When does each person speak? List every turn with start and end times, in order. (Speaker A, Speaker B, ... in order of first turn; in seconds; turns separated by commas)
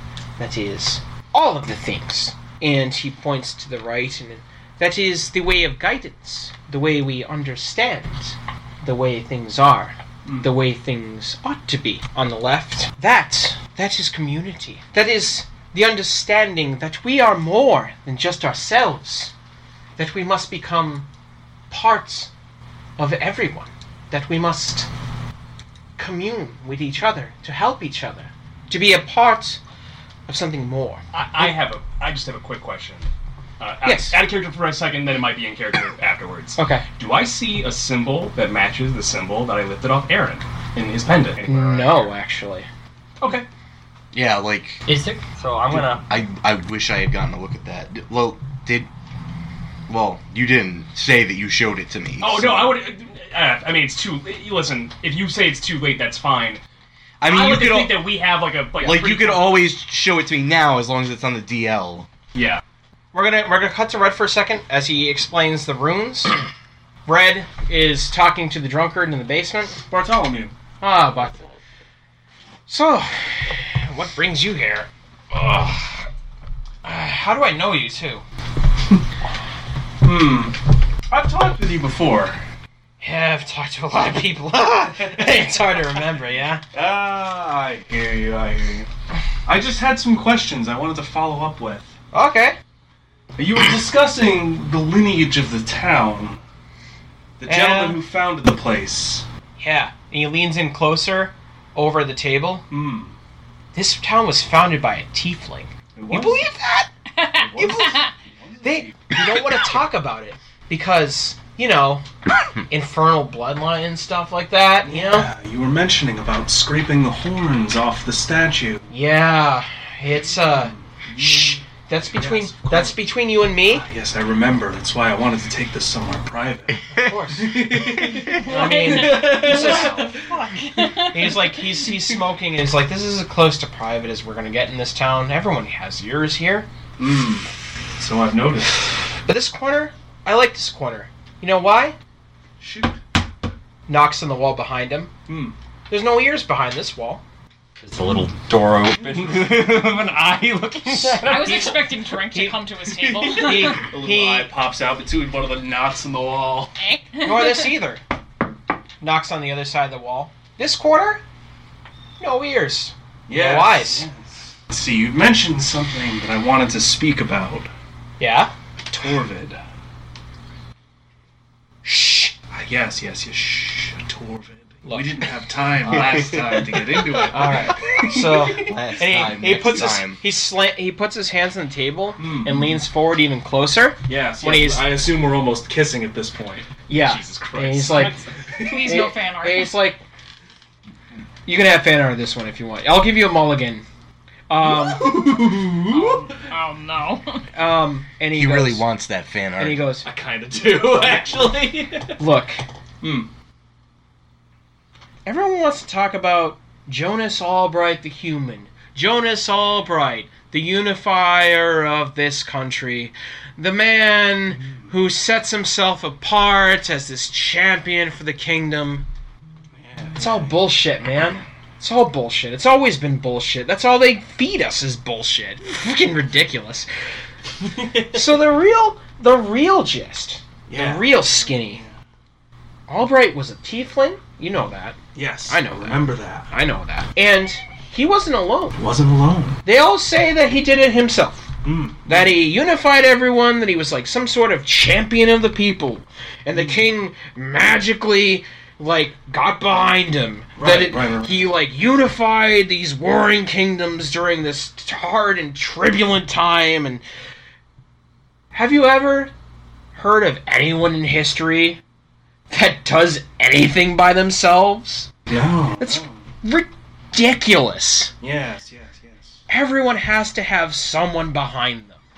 Speaker A: 0.4-19.3, Speaker B: 10.2-10.5, Speaker A: 20.0-21.1, Speaker A: 21.7-22.3, Speaker A: 23.0-24.9, Speaker A: 26.0-29.6, Speaker A: 30.3-31.6, Speaker C: 31.1-33.1, Speaker C: 33.6-42.1, Speaker A: 33.8-34.2, Speaker A: 36.6-36.8, Speaker A: 41.5-42.7, Speaker C: 43.2-43.5, Speaker D: 44.1-44.8, Speaker E: 44.9-46.0, Speaker D: 45.7-48.9, Speaker D: 49.9-52.8, Speaker C: 52.2-56.6, Speaker D: 57.2-58.1, Speaker C: 57.2-59.6, Speaker D: 58.8-62.1, Speaker C: 62.3-62.6, Speaker A: 63.1-66.4, Speaker A: 67.0-69.8, Speaker B: 69.9-70.5, Speaker A: 70.8-71.5, Speaker A: 72.7-76.0, Speaker A: 76.8-78.2, Speaker B: 80.0-80.6, Speaker B: 81.1-82.4, Speaker A: 83.0-86.6, Speaker B: 85.0-85.5, Speaker B: 86.7-88.9, Speaker B: 89.5-91.9, Speaker A: 92.1-92.6, Speaker B: 93.4-96.4, Speaker B: 97.4-99.2, Speaker A: 97.5-98.0, Speaker A: 99.6-102.7, Speaker B: 102.7-103.1, Speaker A: 103.7-106.9, Speaker B: 105.9-106.5, Speaker F: 107.1-108.1, Speaker B: 107.4-109.2, Speaker A: 107.5-108.0, Speaker A: 108.6-112.0, Speaker A: 112.7-115.3, Speaker B: 114.8-118.9, Speaker A: 118.9-123.8, Speaker B: 120.1-123.0, Speaker B: 123.6-130.3, Speaker A: 127.0-130.1, Speaker F: 128.3-131.8, Speaker A: 131.1-136.7, Speaker B: 137.0-139.0, Speaker A: 139.2-141.9, Speaker B: 142.6-143.0, Speaker A: 143.9-145.1, Speaker B: 145.3-145.5, Speaker A: 145.9-147.2, Speaker E: 147.8-151.7, Speaker B: 149.1-149.5, Speaker A: 151.0-151.7, Speaker F: 151.2-153.8, Speaker A: 152.2-152.6, Speaker B: 152.9-156.7, Speaker A: 153.3-154.6, Speaker F: 156.8-157.7, Speaker A: 157.2-158.0, Speaker A: 159.0-161.2, Speaker A: 162.2-164.1, Speaker B: 163.3-167.7, Speaker A: 168.2-168.5, Speaker B: 168.9-169.6, Speaker A: 171.8-172.4, Speaker B: 172.5-178.8, Speaker A: 174.8-175.3, Speaker A: 175.8-176.3, Speaker D: 175.9-176.8, Speaker A: 177.1-184.9, Speaker D: 178.6-180.2, Speaker B: 182.2-182.8, Speaker B: 184.1-186.7, Speaker A: 186.9-188.2, Speaker C: 186.9-188.2, Speaker F: 187.9-189.8, Speaker B: 188.4-188.9, Speaker A: 188.8-190.0, Speaker A: 191.4-193.8, Speaker A: 194.5-195.4, Speaker B: 194.6-196.4, Speaker F: 195.9-197.4, Speaker A: 197.5-198.8, Speaker D: 198.3-199.8, Speaker A: 199.6-200.1, Speaker B: 200.0-202.2, Speaker A: 202.2-202.6, Speaker B: 203.0-203.3, Speaker A: 205.2-219.1, Speaker B: 214.6-214.9, Speaker B: 219.7-220.7, Speaker A: 220.2-226.9, Speaker A: 227.9-231.8, Speaker B: 230.7-231.9, Speaker A: 232.9-238.8, Speaker B: 235.1-236.5, Speaker B: 238.8-239.6, Speaker A: 239.6-241.5, Speaker B: 241.6-242.4, Speaker A: 242.0-257.0, Speaker B: 246.5-246.9, Speaker B: 250.6-251.5, Speaker A: 258.5-259.3, Speaker A: 259.9-261.8, Speaker A: 262.5-265.1, Speaker B: 265.3-266.3, Speaker A: 265.8-268.1, Speaker B: 268.2-269.4, Speaker A: 269.5-272.0